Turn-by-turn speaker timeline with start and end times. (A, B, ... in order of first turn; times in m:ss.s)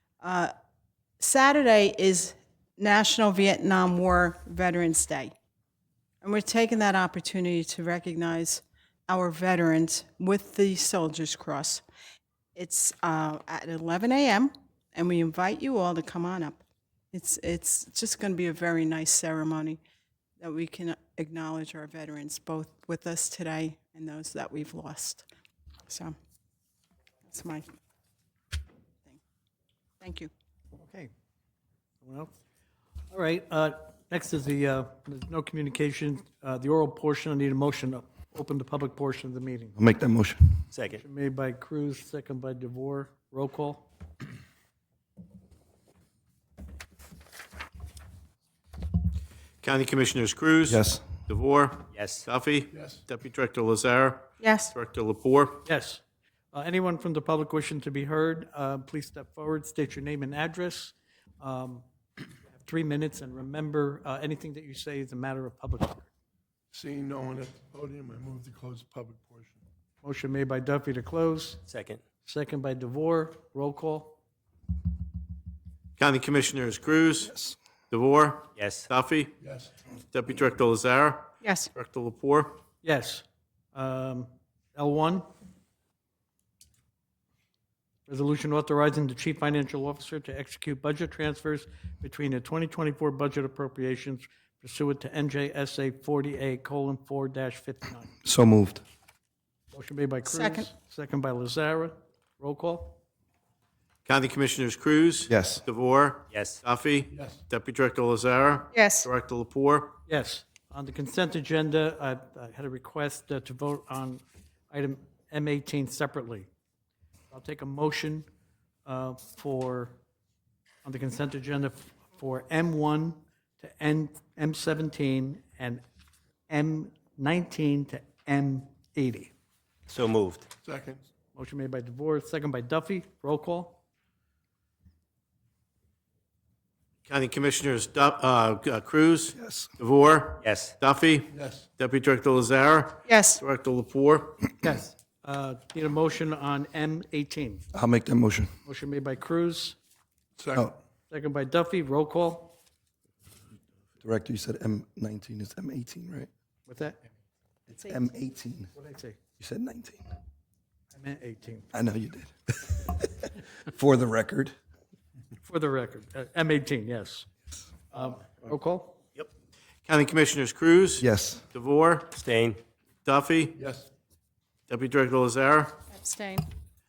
0:00.2-0:00.5 A
0:01.2-0:05.3 A
0:06.2-0:11.8 A
0:12.5-0:19.8 A
0:20.4-0:25.2 A
0:25.9-0:26.2 A
0:27.2-0:27.7 A
0:30.0-0:30.3 A
0:30.8-0:31.1 B
0:32.0-0:32.3 B
0:33.1-0:39.7 B
0:39.8-0:40.7 C
0:40.7-0:41.0 D
0:40.9-0:43.9 B
0:49.6-0:55.6 E
0:50.7-0:51.0 C
0:51.9-0:52.2 D
0:52.7-0:53.0 F
0:54.4-0:54.7 A
0:55.6-0:56.0 B
0:56.5-1:01.8 B
1:02.6-1:06.0 B
1:06.7-1:09.6 F
1:10.0-1:11.6 B
1:11.7-1:12.0 D
1:12.2-1:14.2 B
1:16.0-1:17.3 E
1:17.9-1:19.3 E
1:18.6-1:18.9 D
1:19.4-1:19.7 F
1:20.1-1:22.6 E
1:21.4-1:21.7 A
1:22.8-1:25.2 B
1:28.1-1:38.1 B
1:38.2-1:38.8 C
1:39.7-1:43.0 B
1:40.2-1:40.7 A
1:44.0-1:50.0 E
1:45.3-1:45.6 C
1:46.3-1:46.6 D
1:47.1-1:47.4 F
1:48.7-1:49.1 A
1:50.1-1:56.5 B
1:57.3-1:58.2 B
1:58.8-2:00.0 B
2:00.8-2:05.8 B
2:06.5-2:09.3 B
2:09.9-2:10.4 D
2:10.6-2:11.0 F
2:11.3-2:13.8 B
2:17.1-2:24.5 E
2:19.4-2:19.7 C
2:20.4-2:20.7 D
2:21.3-2:21.7 F
2:23.0-2:23.4 A
2:24.6-2:27.6 B
2:27.7-2:28.5 C
2:28.6-2:29.8 B
2:30.4-2:30.7 F
2:31.1-2:32.6 B
2:34.0-2:36.3 C
2:36.7-2:37.1 B
2:37.7-2:38.7 C
2:38.7-2:39.2 B
2:39.4-2:40.0 C
2:40.9-2:41.7 B
2:41.7-2:44.5 C
2:45.4-2:47.3 B
2:47.9-2:49.0 B
2:49.8-2:52.2 E
2:51.0-2:51.4 C
2:52.1-2:52.6 D
2:53.0-2:53.6 E
2:53.6-2:53.9 F
2:54.7-2:55.8 E
2:55.9-2:56.4 A